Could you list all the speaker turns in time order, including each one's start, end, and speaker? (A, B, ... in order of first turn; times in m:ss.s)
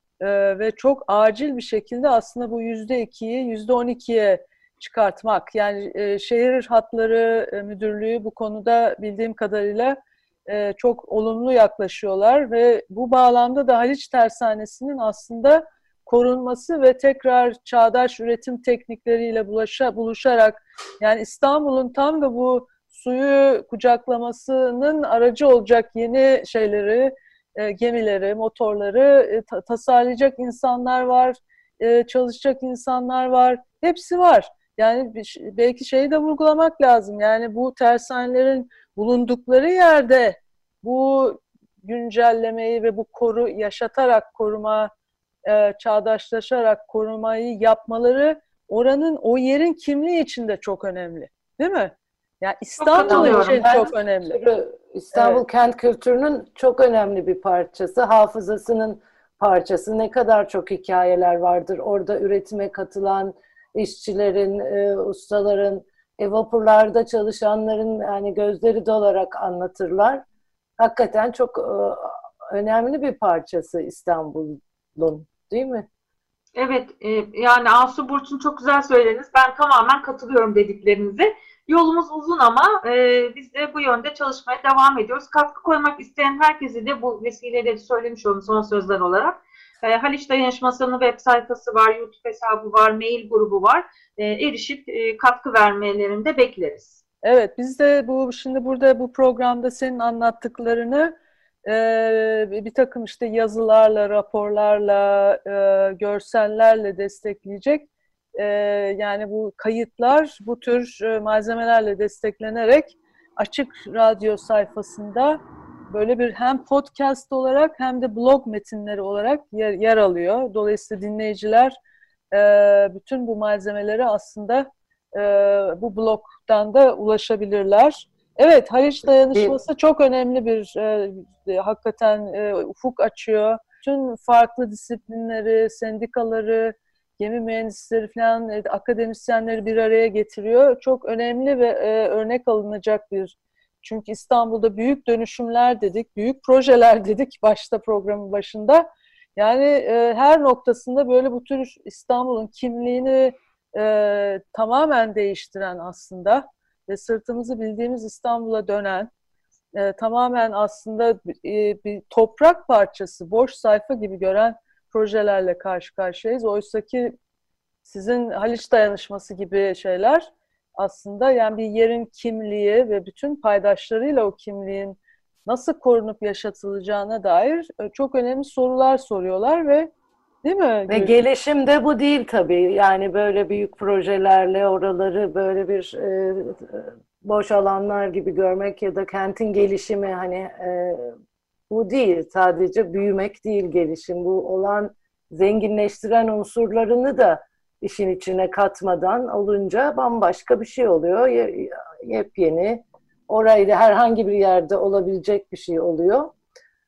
0:00.2-0:44.9 A
0:45.4-0:54.4 A
0:52.8-0:54.0 B
0:53.0-1:10.2 C
0:55.1-0:55.4 A
1:10.8-1:15.9 C
1:16.6-1:37.0 B
1:37.2-1:41.2 A
1:41.7-2:01.8 A
2:02.3-2:39.1 A
2:09.3-2:09.6 C
2:39.8-2:47.2 A
2:47.8-2:59.9 A
3:00.4-3:01.2 A
3:00.9-3:11.1 C
3:11.7-3:26.3 C